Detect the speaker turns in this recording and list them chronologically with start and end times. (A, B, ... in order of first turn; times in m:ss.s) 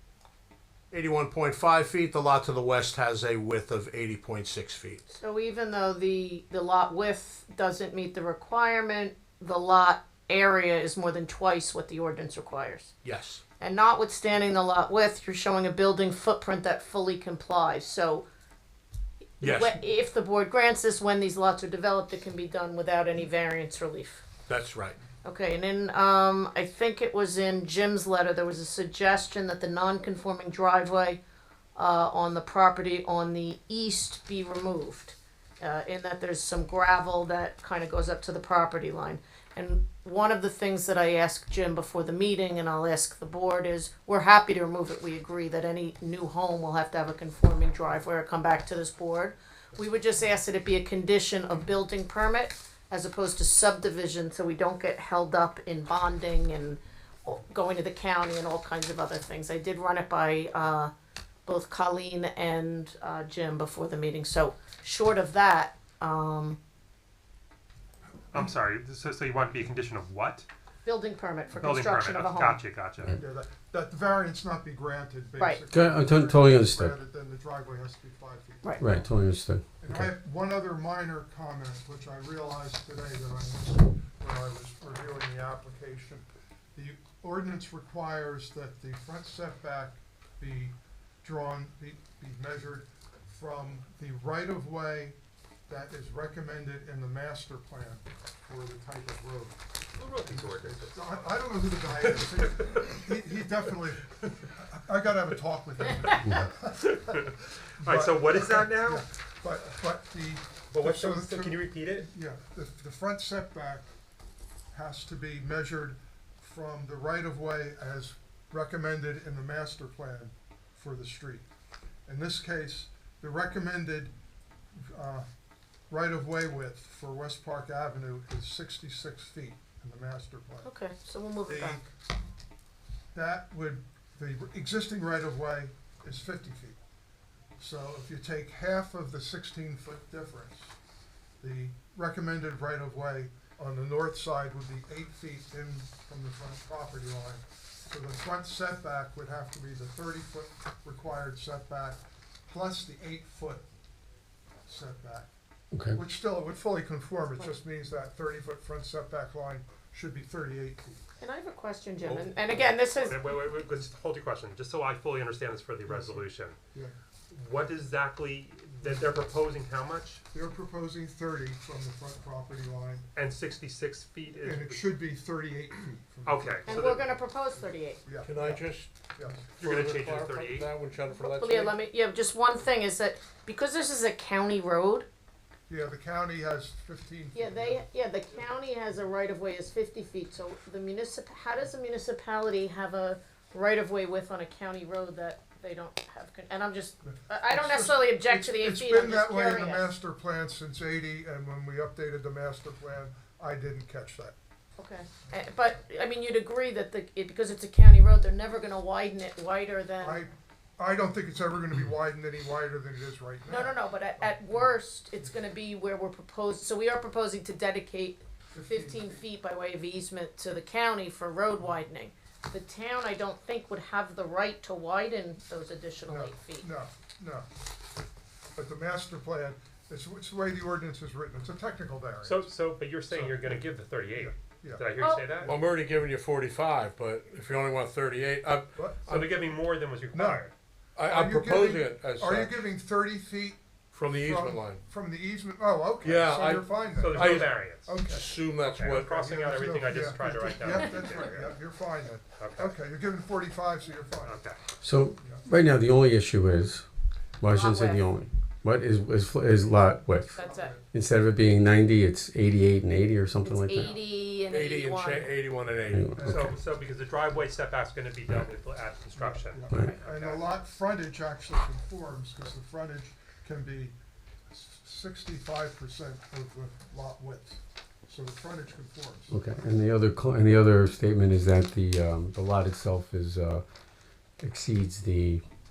0:00.9-0:05.0 A
0:05.1-0:12.9 B
0:13.0-0:13.4 A
0:13.6-0:18.2 B
0:19.4-0:24.3 B
0:19.4-0:19.7 A
0:24.5-0:25.0 A
0:25.2-0:31.2 B
0:31.8-1:00.9 B
1:01.4-1:06.6 B
1:08.3-1:10.5 C
1:10.8-1:12.6 B
1:11.6-1:13.2 C
1:13.1-1:19.1 D
1:15.7-1:16.9 E
1:18.8-1:20.1 E
1:19.8-1:35.2 D
1:35.7-1:39.6 D
1:40.0-1:41.3 C
1:40.2-1:47.3 D
1:42.0-1:43.0 C
1:46.0-1:49.1 C
1:47.8-1:53.9 D
1:50.7-1:52.1 C
1:54.7-2:01.4 D
2:02.1-2:04.1 D
2:04.8-2:05.3 D
2:05.9-2:10.7 D
2:10.6-2:11.9 B
2:11.5-2:11.8 D
2:13.1-2:16.8 D
2:17.6-2:20.8 D
2:21.4-2:33.7 D
2:34.6-2:35.3 D
2:35.7-2:36.0 E
2:35.9-2:41.0 D
2:41.2-2:43.2 B
2:42.9-2:46.6 C
2:45.8-2:46.9 D
2:47.3-2:50.2 C
2:50.3-2:53.1 D
2:53.1-2:55.0 C
2:54.4-2:57.2 D
2:56.2-2:57.0 C
2:56.7-2:58.1 B
2:58.0-2:59.5 D
2:58.2-2:58.9 A
2:59.6-3:00.7 C
2:59.6-3:01.7 A
3:01.2-3:05.0 B
3:05.7-3:07.8 D
3:07.3-3:19.9 B
3:17.0-3:24.3 D
3:24.8-3:30.2 B
3:30.0-3:34.7 D
3:33.5-3:46.7 B
3:38.5-3:39.2 D
3:46.1-3:47.5 D
3:48.6-3:52.5 D
3:52.2-3:55.6 C
3:53.1-3:55.7 D
3:55.0-3:55.3 B
3:55.4-3:59.2 A
3:58.8-3:59.2 D
3:59.1-4:00.5 C
4:00.1-4:00.4 D
4:01.0-4:02.5 A
4:01.0-4:08.2 D
4:03.9-4:04.8 A
4:06.0-4:07.5 A
4:06.9-4:08.0 C
4:08.1-4:09.1 A
4:08.7-4:11.5 C
4:08.8-4:14.4 D
4:10.6-4:11.2 B
4:12.4-4:12.7 C
4:14.2-4:14.6 C
4:14.8-4:16.9 E
4:15.2-4:15.5 D
4:17.4-4:20.4 E
4:17.5-4:18.0 B
4:20.4-4:20.7 B
4:20.4-4:20.9 D
4:20.9-4:24.0 E
4:23.4-4:25.3 B
4:24.5-4:26.0 A
4:25.9-4:26.5 E
4:26.2-4:26.6 D
4:26.2-4:30.4 C
4:29.1-4:33.9 D
4:34.5-4:39.3 D
4:39.3-4:43.6 E
4:44.4-4:45.4 E